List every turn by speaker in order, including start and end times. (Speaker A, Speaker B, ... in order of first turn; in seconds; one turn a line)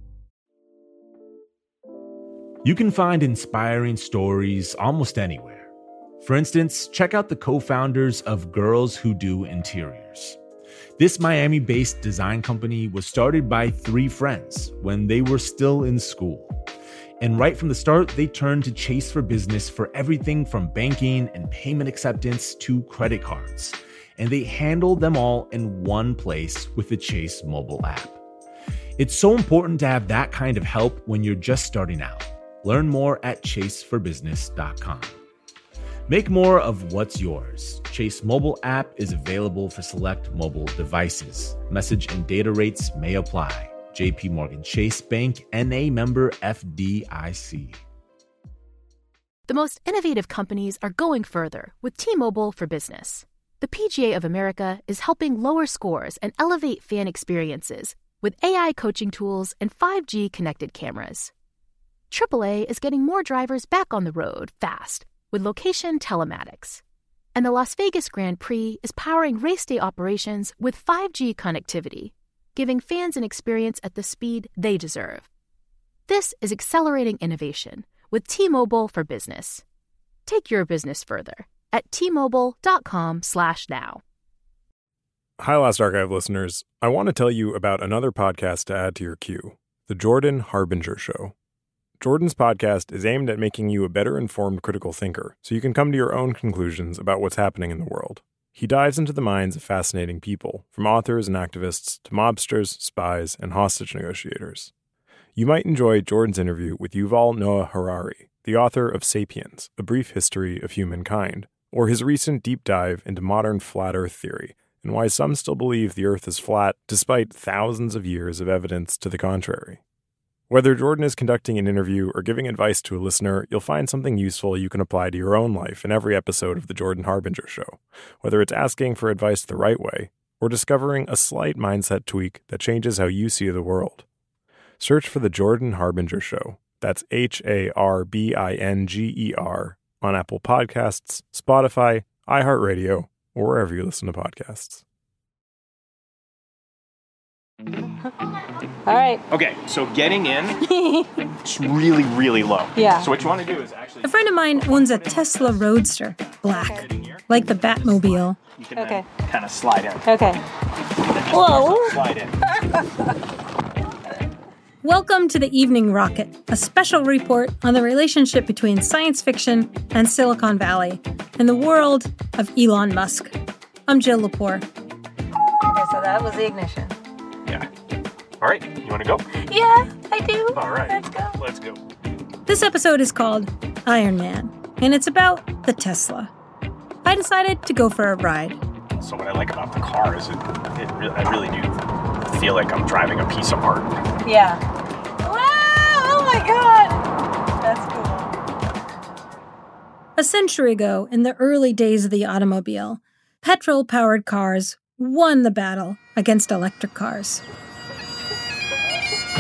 Speaker A: 2.6-5.7
Speaker A: 6.2-10.4
Speaker A: 11.0-16.6
Speaker A: 17.2-28.2
Speaker A: 29.0-35.2
Speaker A: 36.1-47.8
Speaker B: 49.5-61.3
Speaker B: 62.1-66.8
Speaker B: 67.3-75.3
Speaker B: 76.1-79.6
Speaker B: 80.3-84.0
Speaker C: 85.4-91.3
Speaker C: 92.0-104.7
Speaker C: 105.4-119.8
Speaker C: 120.5-134.1
Speaker C: 134.8-144.8
Speaker D: 148.9-149.2
Speaker E: 149.3-150.6
Speaker D: 150.6-151.1
Speaker E: 151.4-155.6
Speaker D: 152.8-153.1
Speaker F: 154.0-158.4
Speaker D: 156.5-156.8
Speaker E: 156.8-157.2
Speaker E: 157.7-160.2
Speaker D: 158.7-159.1
Speaker D: 160.1-160.4
Speaker E: 161.1-162.3
Speaker D: 161.3-162.1
Speaker F: 164.8-173.3
Speaker F: 173.9-174.7
Speaker D: 175.7-177.0
Speaker E: 178.4-179.3
Speaker D: 179.3-181.4
Speaker E: 180.5-181.8
Speaker F: 182.5-186.3
Speaker F: 187.1-188.6
Speaker E: 189.0-193.9
Speaker D: 194.2-194.6
Speaker D: 195.2-197.1
Speaker D: 197.6-198.3
Speaker F: 200.2-207.4